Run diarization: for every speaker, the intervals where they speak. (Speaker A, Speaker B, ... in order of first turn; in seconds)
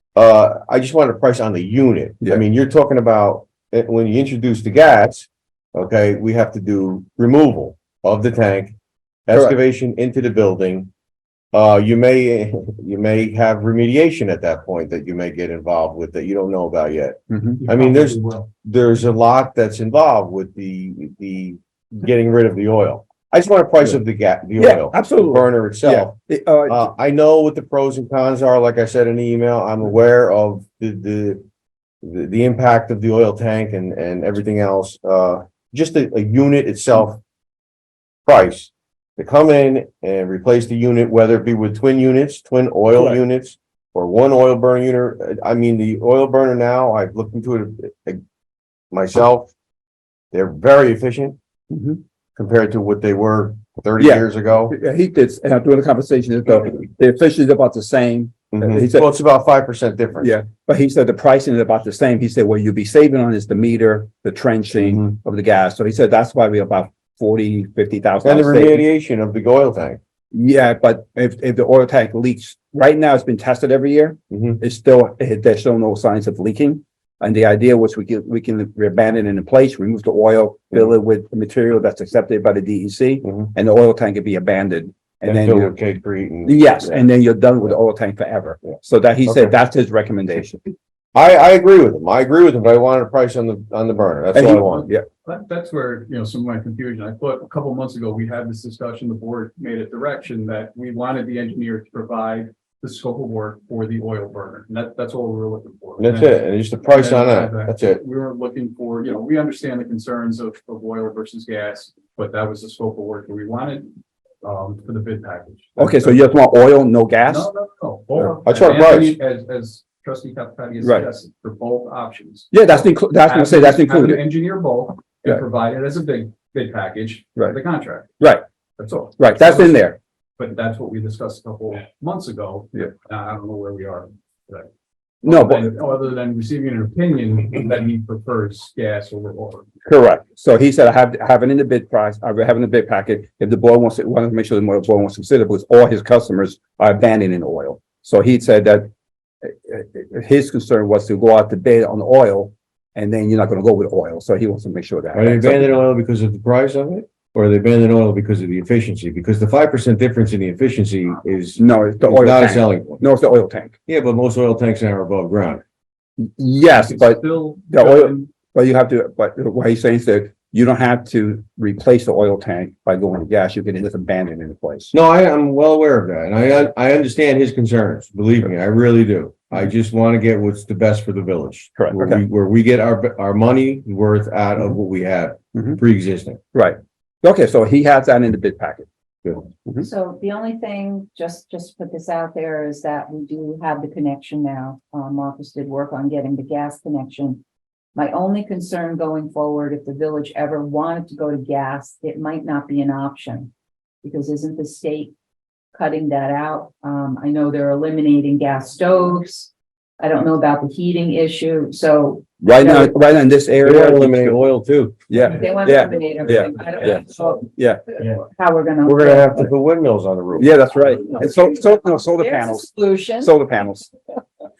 Speaker A: 0.1-8.8, 9.3-10.9, 11.5-31.4, 32.0-37.2, 38.2-48.2, 48.9-49.5, 50.3-51.4, 52.4-54.7, 58.5-60.3, 64.8-65.1, 68.2-70.0, 74.3-74.6, 83.2-83.5, 85.2-87.1, 88.6-89.5, 91.1-94.9, 106.0-108.0, 118.4-119.2, 155.1-163.0, 163.8-165.6, 174.9-186.4, 213.6-215.4, 218.8-220.6
Speaker B: 17.3-17.6, 24.6-26.9, 51.7-52.0, 54.0-59.1, 60.2-68.8, 70.3-85.8, 86.5-90.7, 94.3-95.0, 115.8-117.5, 122.5-124.2, 129.2-130.0, 135.2-135.7, 139.8-148.9, 149.4-155.8, 161.6-163.7, 166.2-174.9, 181.8-182.2, 186.5-188.9, 212.4-214.4, 215.1-217.8, 220.3-223.9
Speaker C: 17.6-18.5, 95.2-113.9, 114.4-116.3, 117.2-128.2, 128.8-134.7, 135.2-139.7, 166.7-168.3
Speaker D: 189.8-197.4, 197.9-203.5, 204.0-205.1, 205.7-212.9, 215.3-219.5, 220.8-223.3